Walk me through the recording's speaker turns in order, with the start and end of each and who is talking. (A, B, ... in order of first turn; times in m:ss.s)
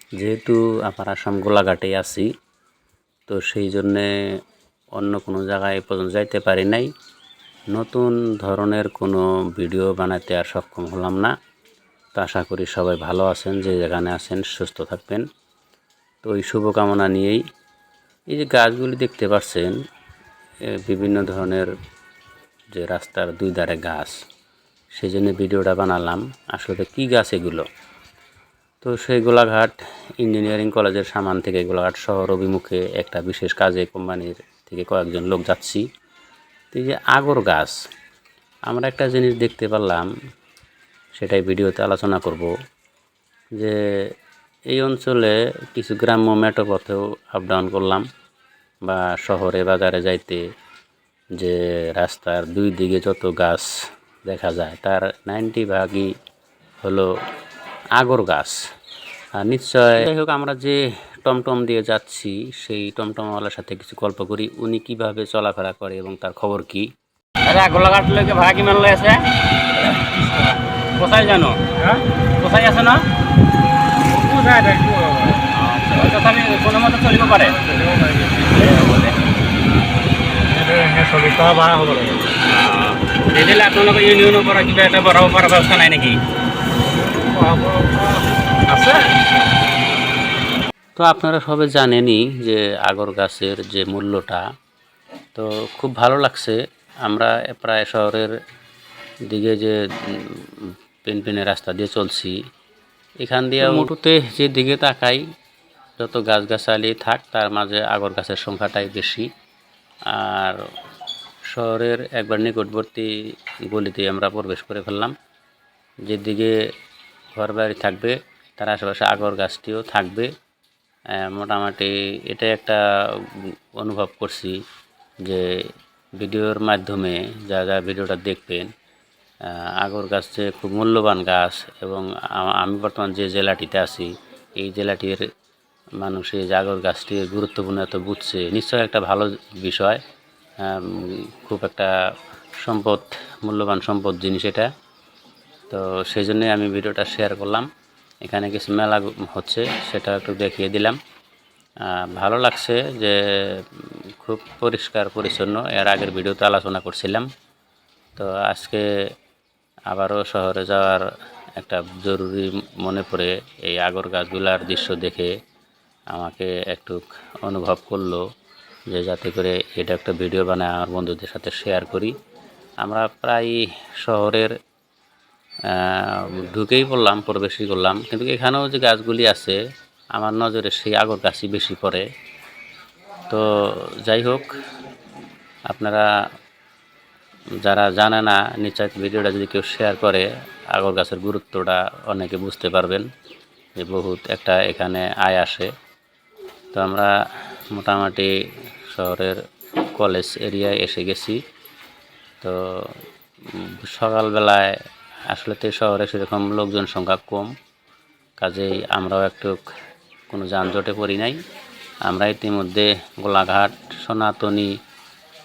0:00.2-0:02.3 A
0:03.3-0:04.1 A
0:05.0-0:06.9 A
0:07.7-0:11.3 A
0:12.2-0:15.2 A
0:16.2-0:17.4 A
0:18.3-0:19.7 A
0:20.7-0:21.7 A
0:22.7-0:24.2 A
0:25.0-0:27.6 A
0:28.8-0:35.8 A
0:36.7-0:37.8 A
0:38.7-0:40.1 A
0:41.2-0:42.5 A
0:44.7-0:48.0 A
0:48.8-0:50.4 A
0:51.4-0:53.7 A
0:54.3-0:56.1 A
0:56.8-0:57.1 A
0:58.0-0:58.6 A
0:59.4-1:06.9 A
1:07.4-1:09.2 B
1:10.1-1:13.1 B
1:14.1-1:17.7 B
1:17.7-1:18.4 C
1:18.4-1:19.2 B
1:20.5-1:22.3 C
1:22.3-1:26.2 B
1:27.3-1:28.3 C
1:28.7-1:29.2 B
1:31.0-1:34.4 A
1:35.4-1:38.3 A
1:39.3-1:42.4 A
1:43.2-1:45.2 A
1:46.0-1:49.3 A
1:50.1-1:50.6 A
1:51.5-1:53.1 A
1:53.7-1:55.1 A
1:56.1-1:56.6 A
1:57.4-2:00.3 A
2:01.2-2:04.6 A
2:06.2-2:08.7 A
2:09.4-2:15.2 A
2:16.0-2:20.0 A
2:20.6-2:21.9 A
2:22.6-2:24.7 A
2:25.7-2:27.7 A
2:28.2-2:31.0 A
2:31.8-2:37.3 A
2:38.2-2:38.8 A
2:39.9-2:41.1 A
2:41.6-2:45.3 A
2:46.1-2:48.2 A
2:48.9-2:52.1 A
2:52.8-2:54.5 A
2:55.7-2:59.6 A
3:00.2-3:02.0 A
3:04.0-3:04.5 A
3:05.7-3:06.1 A
3:07.6-3:13.0 A
3:13.8-3:15.7 A
3:16.7-3:17.1 A
3:17.7-3:18.3 A
3:18.9-3:21.4 A
3:22.4-3:24.8 A
3:25.3-3:27.5 A
3:28.4-3:29.6 A
3:30.3-3:31.4 A
3:32.0-3:34.7 A